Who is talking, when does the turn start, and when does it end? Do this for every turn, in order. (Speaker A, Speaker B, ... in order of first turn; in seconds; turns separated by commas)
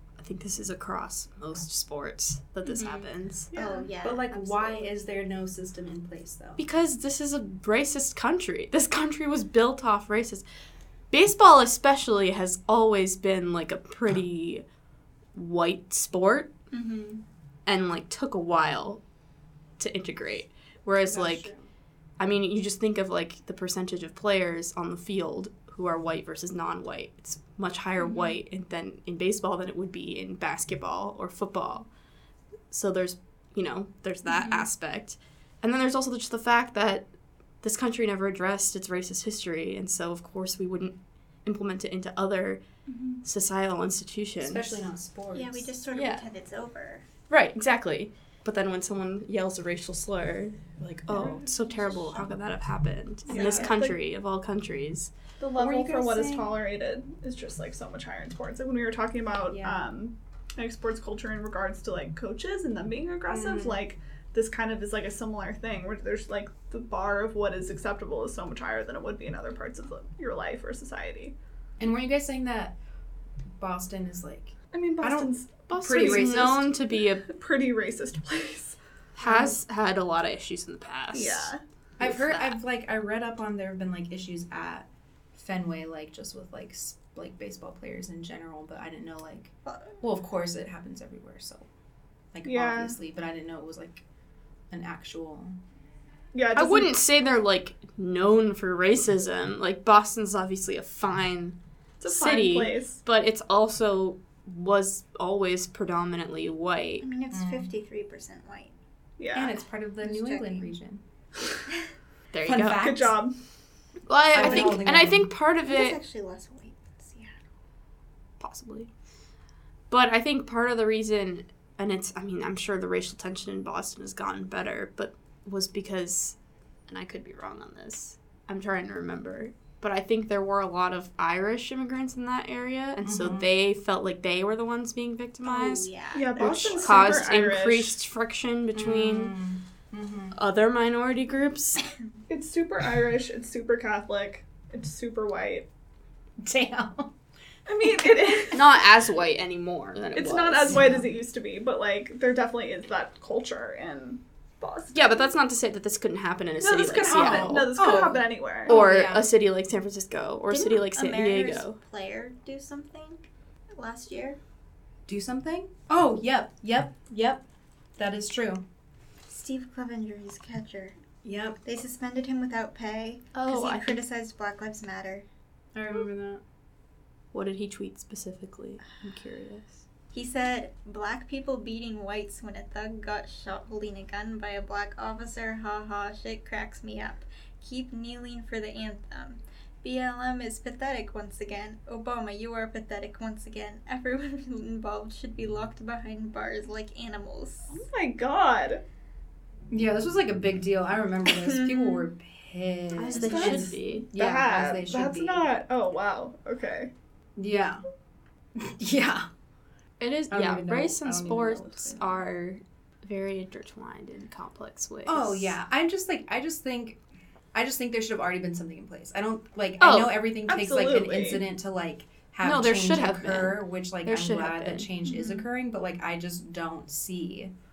Speaker A: 0.2-3.5, Speaker B: 2.6-5.0, Speaker C: 3.5-3.9, Speaker D: 4.0-6.6, Speaker A: 6.6-10.4, Speaker A: 11.1-14.7, Speaker A: 15.3-16.5, Speaker B: 16.7-17.2, Speaker A: 17.7-19.0, Speaker A: 19.8-21.5, Speaker D: 21.0-21.7, Speaker A: 22.2-31.9, Speaker A: 32.7-37.1, Speaker A: 37.6-42.6, Speaker B: 42.9-43.2, Speaker A: 43.2-44.8, Speaker D: 44.4-45.7, Speaker B: 45.3-47.0, Speaker A: 45.9-46.3, Speaker A: 47.3-55.1, Speaker D: 51.1-52.3, Speaker C: 53.3-54.0, Speaker B: 53.3-53.8, Speaker C: 55.4-71.3, Speaker D: 55.6-56.5, Speaker D: 59.5-59.8, Speaker D: 63.3-63.8, Speaker D: 71.8-72.7, Speaker D: 73.6-76.7, Speaker C: 74.7-76.3, Speaker A: 75.7-77.3, Speaker C: 77.3-78.8, Speaker A: 79.2-82.6, Speaker C: 81.1-81.6, Speaker D: 82.0-91.7, Speaker B: 89.7-89.9, Speaker D: 92.3-94.0, Speaker C: 92.5-93.0, Speaker D: 94.7-95.6, Speaker C: 96.3-97.0, Speaker A: 96.5-107.1, Speaker C: 102.0-103.0, Speaker B: 107.0-108.7, Speaker D: 107.3-107.7, Speaker C: 109.2-109.5, Speaker D: 109.3-111.0, Speaker B: 110.0-110.7, Speaker A: 112.3-112.9, Speaker D: 112.5-113.2, Speaker C: 112.8-113.4, Speaker A: 114.1-116.0, Speaker D: 114.3-115.3, Speaker B: 114.3-114.8, Speaker B: 115.7-117.3, Speaker A: 118.4-118.9, Speaker A: 119.9-126.4, Speaker A: 126.9-139.3, Speaker D: 133.0-133.5, Speaker B: 135.4-137.0, Speaker C: 136.1-137.9, Speaker D: 136.4-136.8, Speaker D: 138.8-140.3, Speaker A: 140.3-141.8, Speaker C: 142.3-145.7, Speaker D: 146.4-147.1, Speaker C: 147.7-148.8, Speaker A: 148.5-150.9, Speaker C: 150.2-155.2, Speaker D: 150.7-151.2, Speaker A: 154.9-161.8, Speaker C: 156.6-158.8, Speaker D: 157.0-159.3, Speaker B: 160.5-164.4, Speaker D: 165.1-167.4, Speaker D: 168.0-168.6, Speaker B: 169.3-171.0, Speaker D: 171.2-171.6, Speaker B: 171.6-175.2, Speaker A: 173.3-174.0, Speaker D: 175.8-176.4, Speaker A: 177.3-179.8, Speaker B: 180.1-197.8, Speaker C: 197.7-198.8, Speaker D: 199.7-205.4, Speaker B: 201.3-202.1, Speaker A: 203.0-204.1, Speaker C: 203.2-206.9, Speaker D: 207.4-207.8, Speaker D: 208.6-209.3, Speaker A: 210.0-215.6, Speaker D: 210.3-212.3, Speaker D: 215.1-217.0, Speaker D: 217.5-227.5, Speaker A: 219.8-220.3, Speaker C: 220.5-221.5, Speaker A: 222.4-224.9, Speaker B: 225.1-225.3